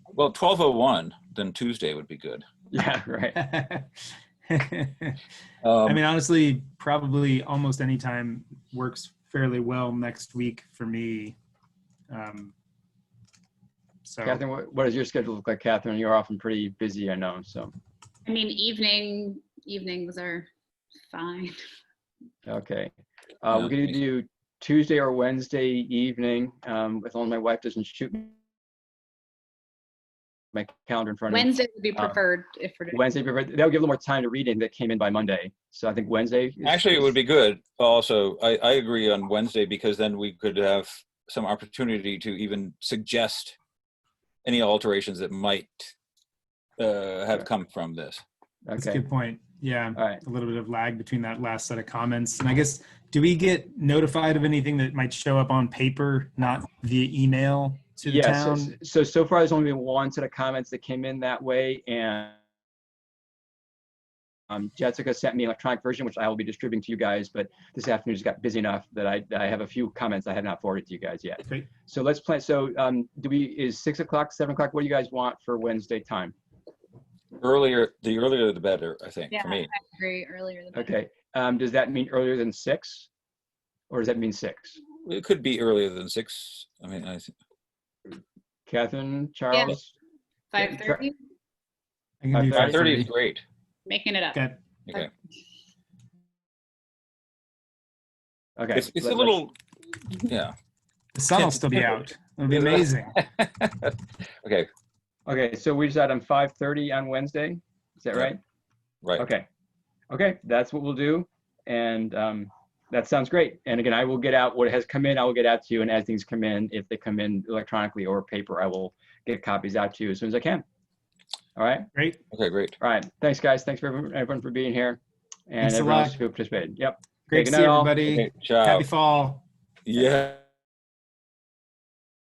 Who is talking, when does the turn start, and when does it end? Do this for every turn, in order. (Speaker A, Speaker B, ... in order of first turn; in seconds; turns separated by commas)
Speaker A: 0.1-2.4, Speaker B: 2.7-3.4, Speaker C: 3.4-3.9, Speaker C: 4.5-5.2, Speaker A: 5.6-6.0, Speaker C: 5.9-11.4, Speaker C: 12.1-12.5, Speaker C: 14.1-14.4, Speaker B: 14.2-17.7, Speaker D: 18.3-20.5, Speaker D: 21.1-21.6, Speaker B: 22.5-22.9, Speaker B: 23.4-28.3, Speaker A: 23.5-24.0, Speaker B: 30.5-32.2, Speaker D: 31.3-33.0, Speaker B: 32.9-37.1, Speaker A: 36.6-43.6, Speaker A: 44.5-45.9, Speaker A: 46.8-48.2, Speaker B: 48.6-49.0, Speaker C: 48.8-58.8, Speaker B: 50.0-50.2, Speaker B: 58.0-62.4, Speaker B: 64.5-76.3, Speaker A: 77.4-79.7, Speaker D: 79.3-80.9, Speaker B: 80.7-83.1, Speaker B: 83.9-84.8, Speaker A: 85.0-87.3, Speaker B: 88.7-89.9, Speaker D: 90.5-91.2, Speaker B: 90.6-91.1, Speaker C: 92.2-93.1, Speaker B: 92.3-93.0, Speaker A: 92.5-93.4, Speaker D: 93.9-95.0, Speaker B: 98.6-99.4, Speaker A: 98.7-99.5, Speaker A: 100.2-100.5, Speaker C: 101.1-103.2, Speaker A: 101.4-101.8, Speaker A: 102.5-104.7, Speaker B: 105.3-108.4, Speaker A: 109.0-109.3, Speaker B: 109.2-109.5, Speaker B: 110.1-120.6, Speaker B: 121.6-121.9, Speaker A: 122.3-122.8, Speaker B: 122.8-128.0, Speaker C: 125.6-126.2, Speaker C: 127.3-129.4, Speaker A: 128.1-128.9, Speaker A: 129.9-130.4